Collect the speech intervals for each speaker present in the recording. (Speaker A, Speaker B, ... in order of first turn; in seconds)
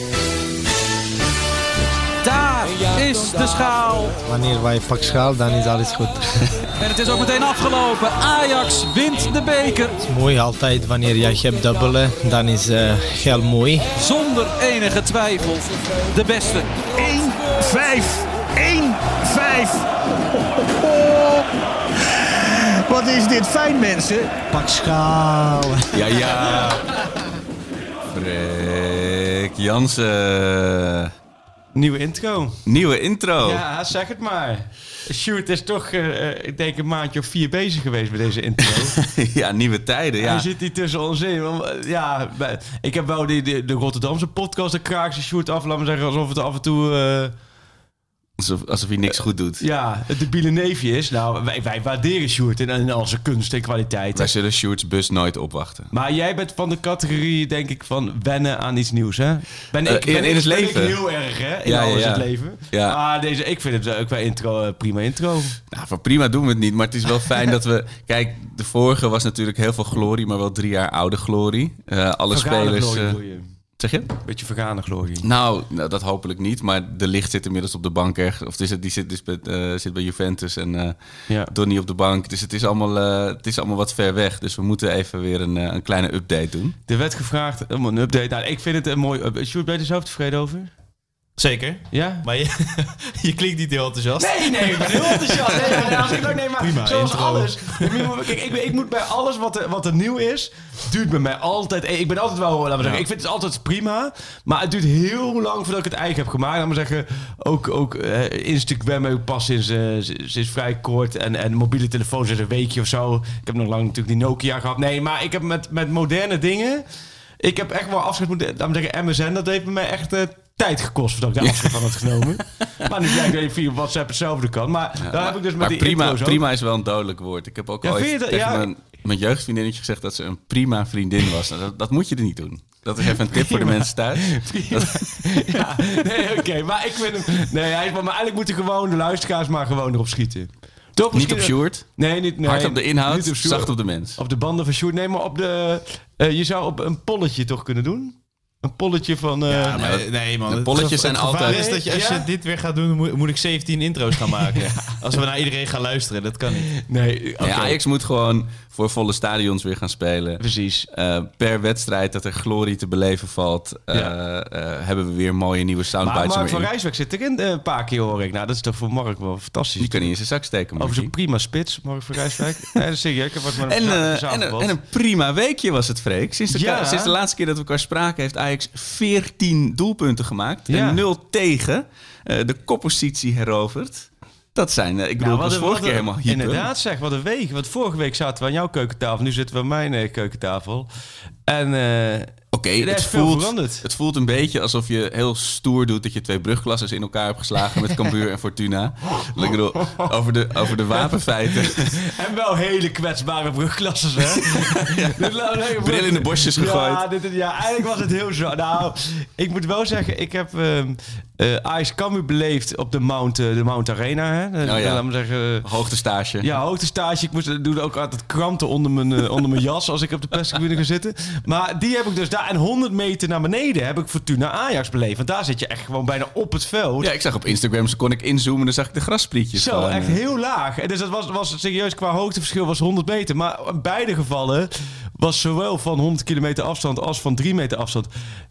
Speaker A: 2.2-4.2, 6.8-9.9, 13.9-16.7
Speaker B: 4.2-6.5, 10.0-13.9
Speaker C: 17.0-19.8, 22.9-25.1
Speaker D: 25.9-26.8, 28.1-31.1, 32.6-33.6, 38.7-40.5, 48.4-49.6, 54.1-55.9, 59.8-61.0, 61.6-63.0, 65.7-73.2, 73.8-74.2, 75.2-86.8, 121.4-122.4, 125.0-135.3, 141.1-144.2, 149.8-151.6, 157.4-166.7, 169.8-171.1, 173.6-186.7, 192.5-202.0, 204.4-207.0, 214.6-215.1, 215.6-216.5, 227.0-230.2
Speaker E: 31.7-32.6, 33.4-39.0, 40.2-47.3, 49.1-54.3, 55.9-65.6, 72.3-73.5, 74.2-75.3, 86.9-90.7, 91.9-92.2, 94.2-116.8, 117.4-126.4, 127.8-128.7, 133.2-149.8, 151.4-152.3, 154.2-155.0, 156.7-157.8, 160.4-160.9, 166.0-170.1, 170.8-174.7, 176.5-177.1, 180.7-181.0, 185.2-190.9, 191.5-193.8, 199.4-200.1, 201.6-215.7, 216.4-227.1, 229.5-238.1
Speaker F: 91.4-98.3, 102.8-103.0, 149.5-156.7